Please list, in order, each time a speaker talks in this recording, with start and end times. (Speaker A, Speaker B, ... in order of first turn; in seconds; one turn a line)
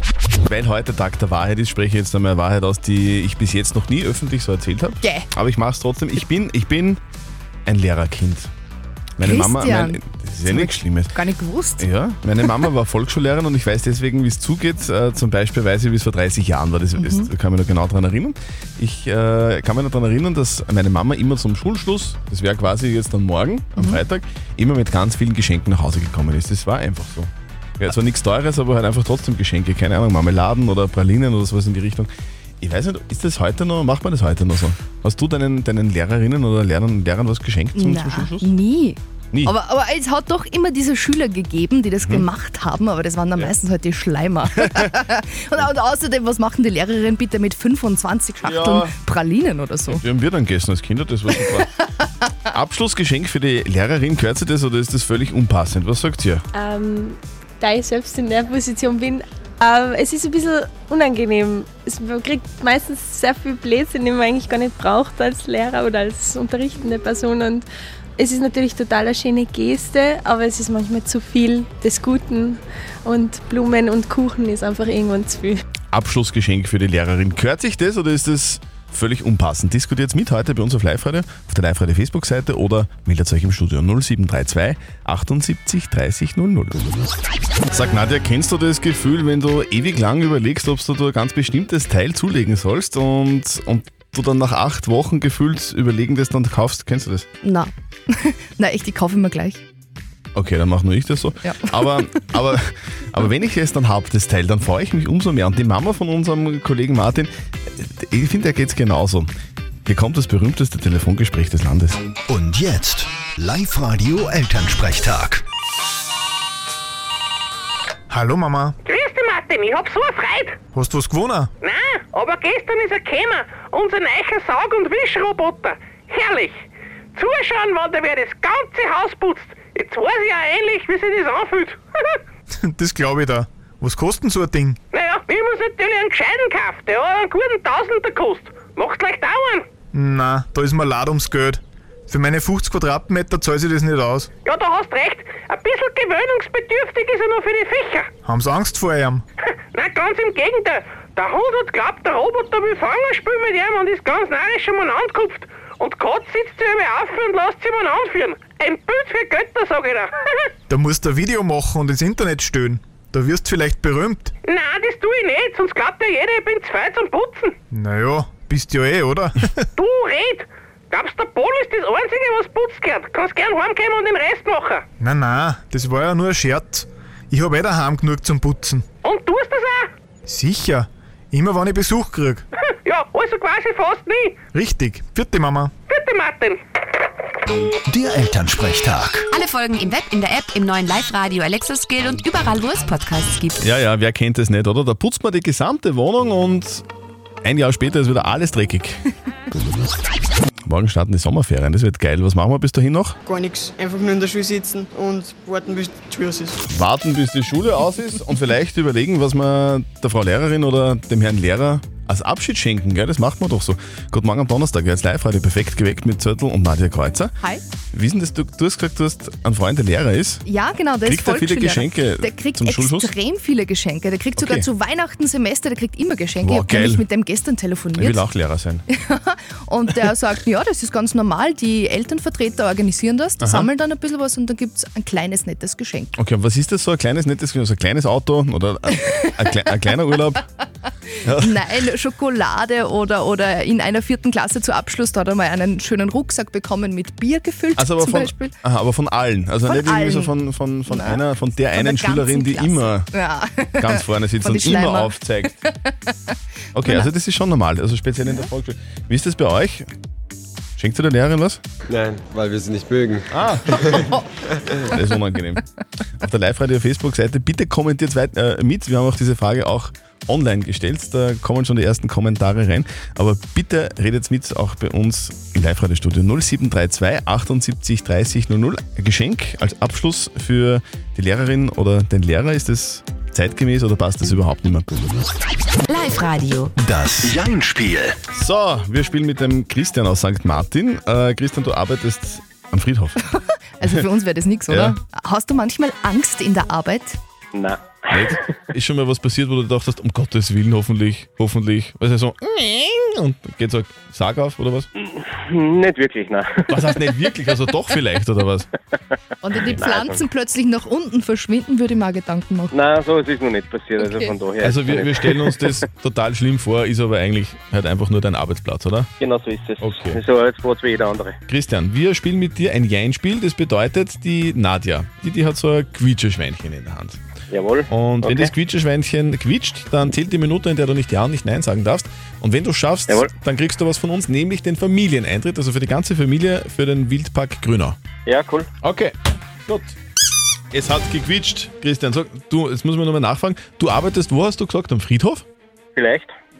Speaker A: 0.4-7.0
Speaker A: 7.7-8.5
Speaker A: 9.2-11.1
Speaker B: 9.2-11.8
Speaker A: 11.8-38.5
Speaker B: 17.0-17.3
Speaker B: 37.8-50.0
Speaker A: 42.0-42.3
Speaker A: 48.4-48.9
Speaker A: 49.9-51.7
Speaker A: 52.5-56.4
Speaker C: 56.5-67.7
Speaker C: 68.2-75.6
Speaker A: 75.9-86.8
Speaker A: 87.7-97.2
Speaker B: 97.4-99.6
Speaker A: 100.3-109.3
Speaker B: 101.4-102.0
Speaker A: 109.8-112.1
Speaker D: 112.3-115.4
Speaker E: 118.1-118.7
Speaker F: 118.8-120.6
Speaker E: 120.7-121.5
Speaker F: 121.6-132.2
Speaker E: 132.7-134.8
Speaker F: 134.9-139.7
Speaker E: 139.9-144.3
Speaker F: 144.4-148.1
Speaker E: 148.2-149.2
Speaker F: 149.7-160.5
Speaker E: 160.7-164.3
Speaker F: 164.4-167.6
Speaker E: 167.7-169.6
Speaker F: 169.8-174.8
Speaker E: 175.0-178.8
Speaker F: 179.0-179.9
Speaker E: 180.3-182.4
Speaker F: 182.7-184.4
Speaker E: 184.5-185.7
Speaker F: 185.9-186.6
Speaker D: 187.9-189.2
Speaker G: 189.3-193.6
Speaker A: 193.6-196.8
Speaker A: 197.4-199.0
Speaker A: 200.6-203.2
Speaker H: 203.3-206.5
Speaker A: 206.7-217.3
Speaker A: 217.9-220.4
Speaker B: 220.4-228.2
Speaker A: 221.0-223.1
Speaker A: 224.4-224.7
Speaker A: 226.4-227.0
Speaker A: 227.9-228.8
Speaker B: 228.9-236.1
Speaker A: 233.4-233.7
Speaker A: 236.2-240.4
Speaker A: 241.2-241.5
Speaker B: 241.4-248.5
Speaker A: 247.8-253.1
Speaker B: 249.7-250.3
Speaker B: 250.9-256.1
Speaker A: 253.8-255.5
Speaker A: 256.7-259.9
Speaker B: 258.2-258.5
Speaker A: 260.8-261.6
Speaker I: 261.9-264.1
Speaker A: 263.3-264.1
Speaker A: 264.8-265.6
Speaker A: 266.2-284.9
Speaker G: 285.9-286.7
Speaker D: 286.8-288.1
Speaker A: 288.3-293.2
Speaker B: 293.8-297.2
Speaker A: 294.7-294.9
Speaker J: 297.5-298.2
Speaker A: 298.1-304.9
Speaker J: 305.1-306.7
Speaker A: 306.7-308.7
Speaker B: 309.4-312.7
Speaker J: 309.7-310.2
Speaker J: 312.7-315.6
Speaker B: 314.0-314.3
Speaker A: 314.6-319.1
Speaker J: 319.2-321.3
Speaker A: 319.8-320.2
Speaker A: 321.5-327.2
Speaker J: 327.5-328.5
Speaker A: 327.9-338.0
Speaker J: 338.3-338.7
Speaker A: 338.8-339.1
Speaker A: 339.7-339.9
Speaker A: 340.7-345.4
Speaker J: 345.9-346.3